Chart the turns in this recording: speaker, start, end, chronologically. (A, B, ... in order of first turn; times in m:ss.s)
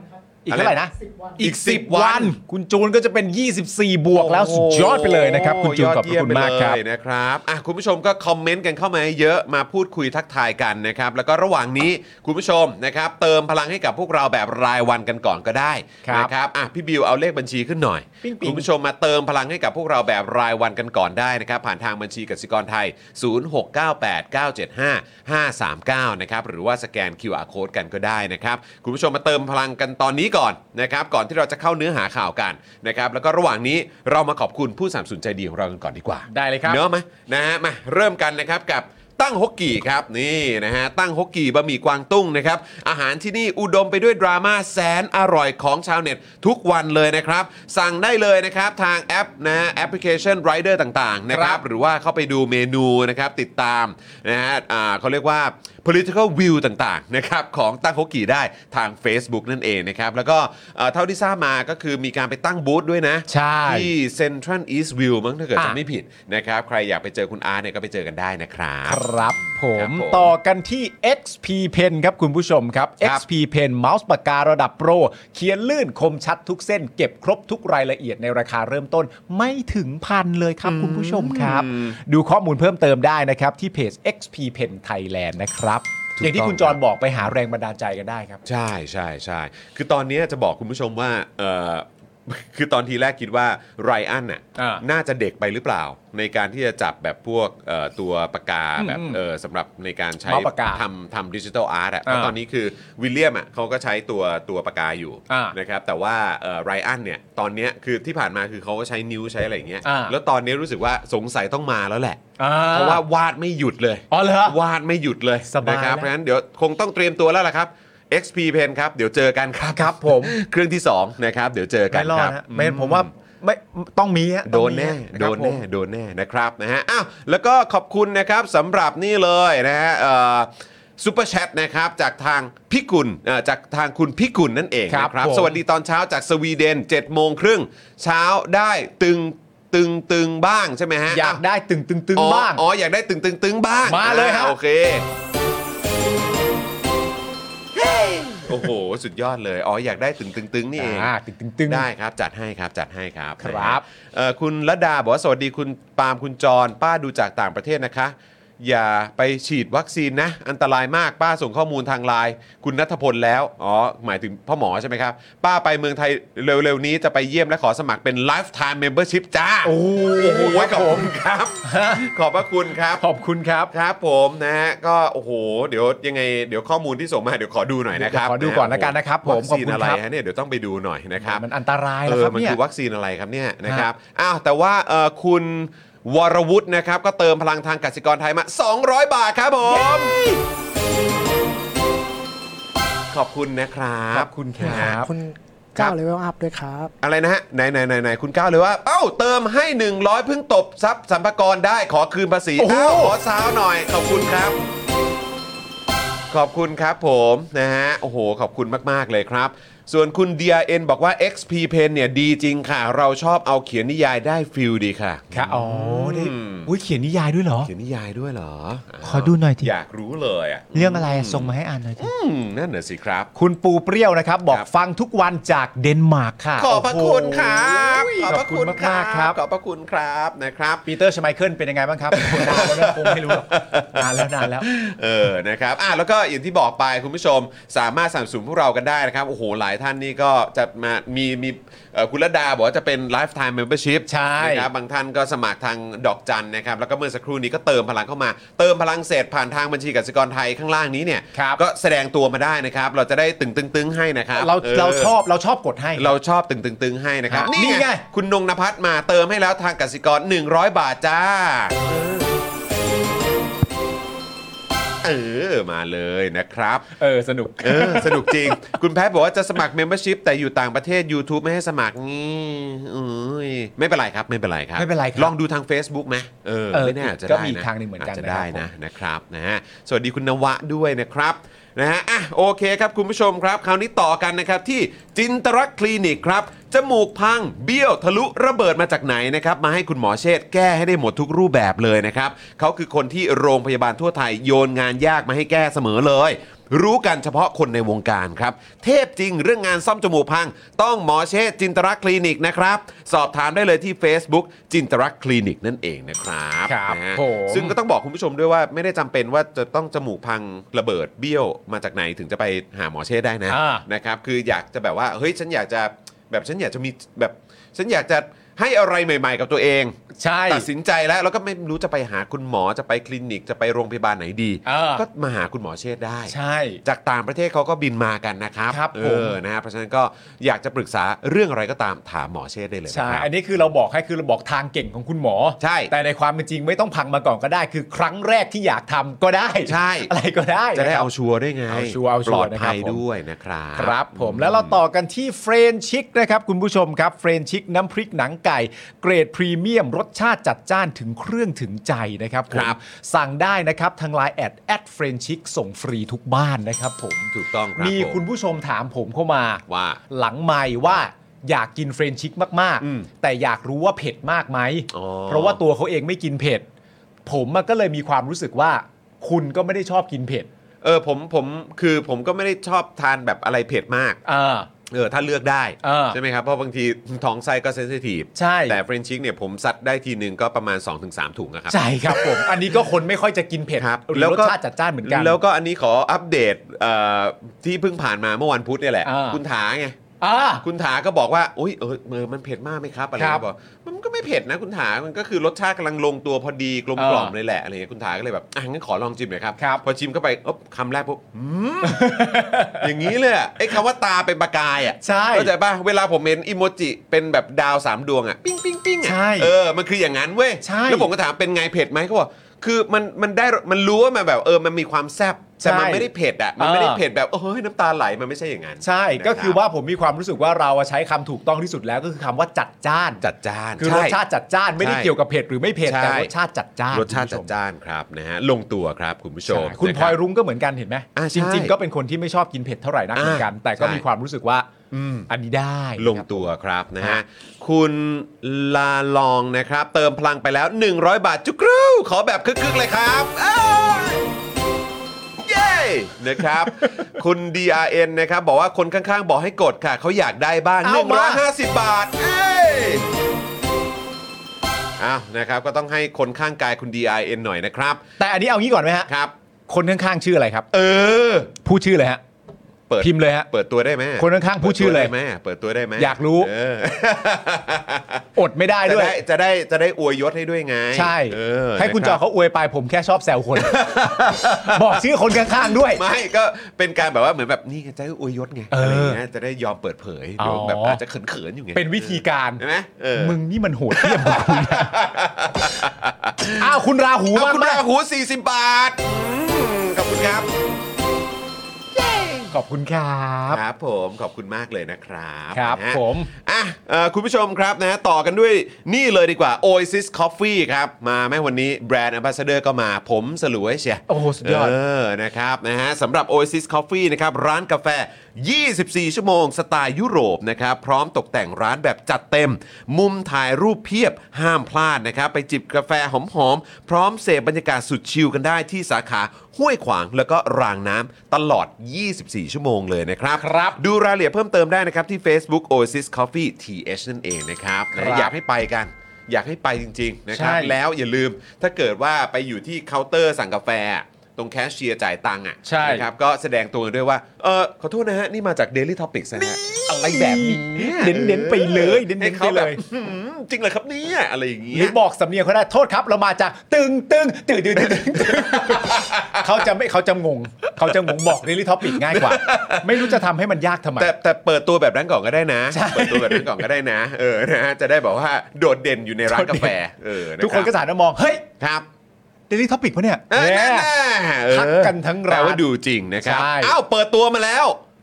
0:00.4-0:06.8 A
0:00.5-0:00.8 B
0:01.4-0:02.4 B
0:04.1-1:09.0 B
0:16.0-0:16.3 A
0:18.2-0:18.7 A
0:36.3-0:36.8 A
0:51.3-0:51.6 A
1:03.3-1:03.9 A
1:08.9-1:28.4 A
1:09.8-1:10.3 B
1:20.6-1:22.0 B
1:26.2-1:26.8 B
1:28.4-2:03.1 B
1:34.6-1:34.8 A
1:38.8-1:39.2 A
1:40.3-1:40.8 A
1:42.1-1:42.3 A
1:45.3-1:45.6 A
1:49.8-1:50.2 A
1:52.4-1:53.0 A
1:54.1-1:54.6 A
1:55.5-1:56.1 A
1:59.8-2:00.3 A
2:01.9-2:05.6 A
2:04.5-2:21.4 B
2:14.9-2:15.6 A
2:21.1-2:22.6 A
2:22.2-2:25.1 B
2:23.8-2:24.6 A
2:27.7-2:31.1 B
2:30.8-2:31.9 A
2:31.7-2:53.0 B
2:33.4-2:33.8 A
2:49.6-2:51.1 A
2:51.6-2:52.1 A
2:53.0-2:53.7 A
2:53.7-3:01.4 B
2:57.9-3:00.0 A
3:01.2-3:02.6 A
3:02.1-3:10.1 B
3:09.6-3:10.4 A
3:13.1-3:15.0 B
3:14.1-3:15.1 A
3:14.6-3:16.9 C
3:17.0-3:24.6 B
3:22.6-3:23.2 A
3:26.3-3:36.7 B
3:35.3-3:37.7 A
3:37.6-3:43.3 B
3:39.0-3:39.7 A
3:40.7-3:42.1 A
3:43.4-3:49.4 A
3:46.6-3:50.9 B
3:50.9-3:54.7 A
3:52.1-4:15.2 B
4:04.1-4:04.7 A
4:11.3-4:11.6 A
4:14.4-4:16.1 A
4:16.0-4:22.3 B
4:17.3-4:18.0 A
4:25.0-4:26.9 B
4:27.0-4:28.5 A
4:27.6-5:20.0 B
4:34.8-4:35.3 A
4:36.7-4:38.7 A
5:06.7-5:07.8 A
5:13.5-5:13.8 A
5:20.2-5:20.7 A
5:20.5-5:33.3 B
5:24.7-5:25.0 A
5:26.3-5:26.8 A
5:28.7-5:29.4 A
5:32.9-5:41.1 A
5:35.6-5:35.9 B
5:39.6-5:40.1 B
5:40.8-5:44.8 B
5:41.7-5:43.0 A
5:43.8-6:06.7 A
5:52.5-5:52.8 B
5:57.3-5:58.2 B
5:59.7-6:00.0 B
6:02.8-6:03.1 B
6:04.9-6:05.6 B
6:07.3-6:10.5 A
6:10.8-6:14.2 B
6:14.2-6:14.7 A
6:14.9-6:22.8 B
6:15.8-6:16.2 A
6:18.4-6:18.8 A
6:21.7-6:25.4 A
6:23.8-6:30.0 B
6:29.0-6:29.4 A
6:30.2-6:30.6 A
6:30.6-6:59.6 B
6:33.2-6:33.4 A
6:37.0-6:37.3 A
6:39.6-6:39.8 A
6:41.8-6:42.9 A
6:45.0-6:45.5 A
6:49.0-6:49.5 A
6:50.6-6:51.1 A
6:55.6-6:57.0 A
6:58.8-7:03.2 A
7:03.2-7:04.2 B
7:03.8-7:07.5 A
7:04.8-7:05.1 B
7:05.8-7:06.3 B
7:06.9-7:10.2 B
7:09.5-7:14.7 A
7:11.2-7:11.8 B
7:13.2-7:14.0 B
7:14.9-7:15.3 B
7:15.3-7:16.5 A
7:16.0-7:24.3 B
7:25.4-7:33.1 B
7:30.8-7:31.4 A
7:35.0-7:38.0 B
7:38.2-7:39.1 A
7:39.1-7:39.3 B
7:39.7-7:40.7 A
7:40.7-7:41.5 B
7:41.6-7:42.2 A
7:42.9-7:48.3 B
7:43.0-7:43.5 A
7:44.2-7:45.1 A
7:46.0-7:46.5 A
7:48.4-7:49.2 A
7:48.8-7:52.2 B
7:50.9-7:56.0 A
7:53.6-7:55.0 B
7:55.7-8:03.4 B
7:58.7-7:59.2 A
8:00.4-8:01.0 A
8:01.8-8:02.6 A
8:03.2-8:05.0 A
8:03.9-8:06.8 B
8:06.6-8:07.8 A
8:07.3-8:10.5 B
8:11.9-8:12.5 B
8:12.5-8:13.6 A
8:13.5-9:05.0 B
8:15.5-8:16.3 A
8:24.1-8:24.8 A
8:43.4-8:43.8 A
8:47.9-8:48.3 A
8:50.3-8:50.8 A
8:55.6-8:56.1 A
8:59.4-9:02.8 A
9:04.7-9:14.1 A
9:07.8-9:09.5 B
9:10.8-9:11.3 B
9:11.8-9:13.2 B
9:14.0-9:20.7 B
9:15.7-9:16.6 A
9:19.3-9:19.7 A
9:20.4-9:21.4 A
9:21.6-9:21.9 B
9:22.5-9:23.9 A
9:23.3-9:27.8 B
9:24.5-9:25.6 A
9:26.2-9:26.8 A